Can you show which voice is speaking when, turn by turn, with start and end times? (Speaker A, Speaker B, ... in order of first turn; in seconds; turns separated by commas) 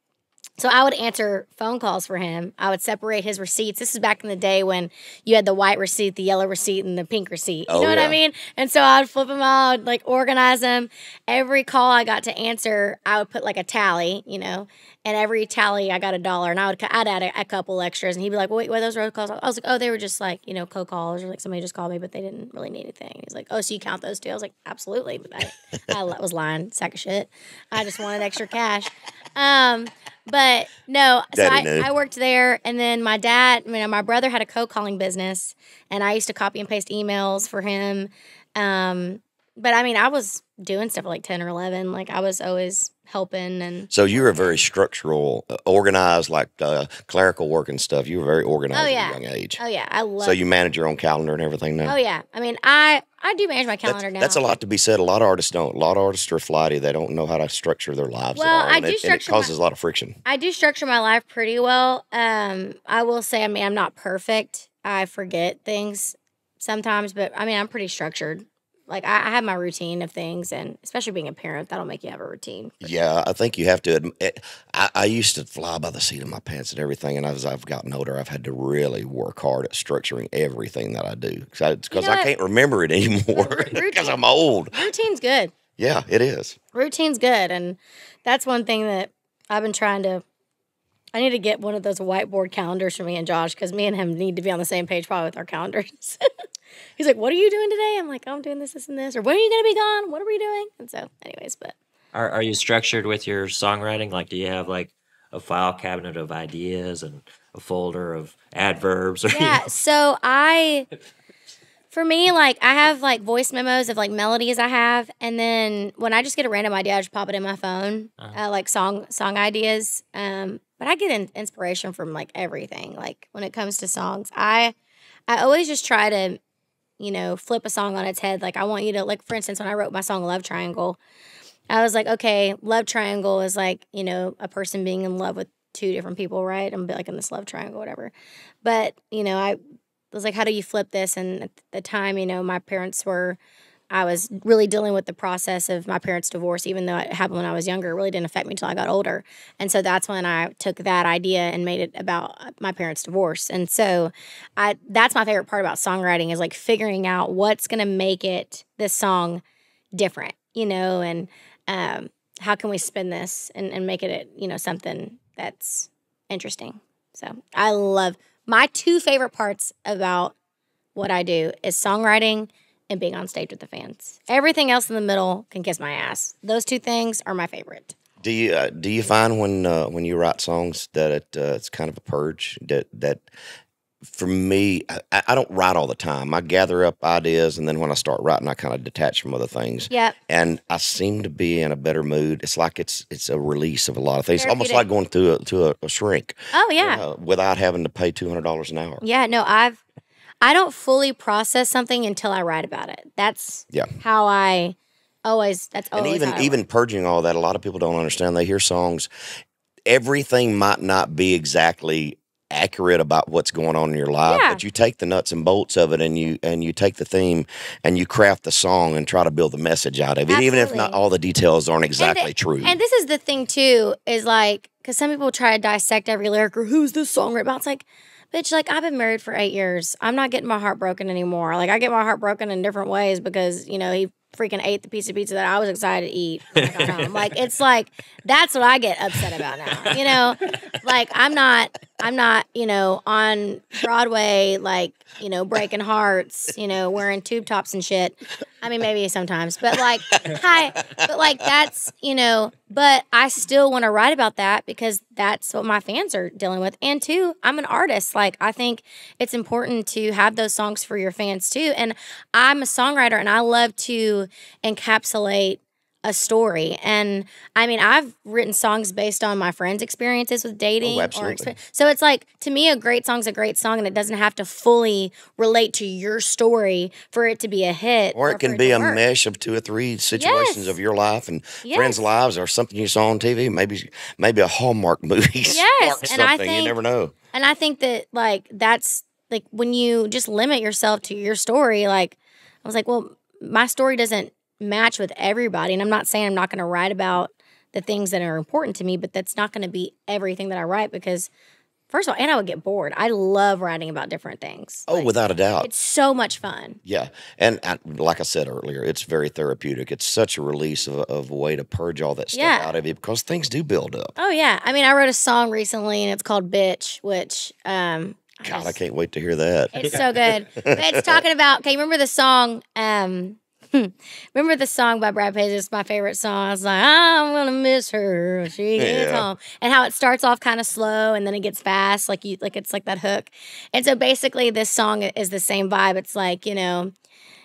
Speaker A: 0.6-44.6, Speaker B: 7.7-8.2, Speaker B: 31.3-31.9, Speaker B: 43.9-49.6, Speaker A: 48.7-50.4, Speaker B: 50.2-52.0, Speaker A: 51.9-54.4, Speaker B: 53.9-60.2, Speaker A: 58.4-59.5, Speaker A: 60.2-72.9, Speaker B: 72.8-84.9, Speaker A: 81.9-82.3, Speaker A: 83.3-84.2, Speaker A: 84.7-85.5, Speaker B: 85.8-86.6, Speaker A: 86.7-90.2, Speaker A: 91.1-96.2, Speaker A: 97.0-101.8, Speaker C: 102.1-109.7, Speaker A: 109.3-110.9, Speaker A: 111.9-124.7, Speaker A: 125.3-126.4, Speaker A: 127.0-131.0, Speaker A: 131.7-138.1, Speaker A: 138.6-139.6, Speaker A: 140.1-143.4, Speaker A: 143.9-159.4, Speaker A: 159.9-170.3, Speaker A: 170.9-178.0, Speaker B: 178.2-183.2, Speaker B: 184.1-199.0, Speaker A: 189.9-190.2, Speaker A: 194.4-194.8, Speaker A: 196.5-197.0, Speaker A: 199.0-199.8, Speaker A: 200.4-206.6, Speaker B: 205.9-209.1, Speaker B: 209.9-222.8, Speaker A: 214.2-214.6, Speaker A: 220.3-221.0, Speaker A: 222.0-279.0, Speaker B: 270.8-271.6, Speaker B: 278.1-287.1, Speaker A: 280.2-280.8, Speaker A: 281.6-282.1, Speaker A: 285.5-286.8, Speaker A: 287.3-301.3, Speaker A: 301.9-306.8, Speaker B: 304.9-305.7, Speaker B: 306.9-314.1, Speaker A: 312.3-312.7, Speaker A: 314.2-318.8, Speaker B: 318.4-321.2, Speaker A: 319.7-336.9, Speaker B: 328.8-329.3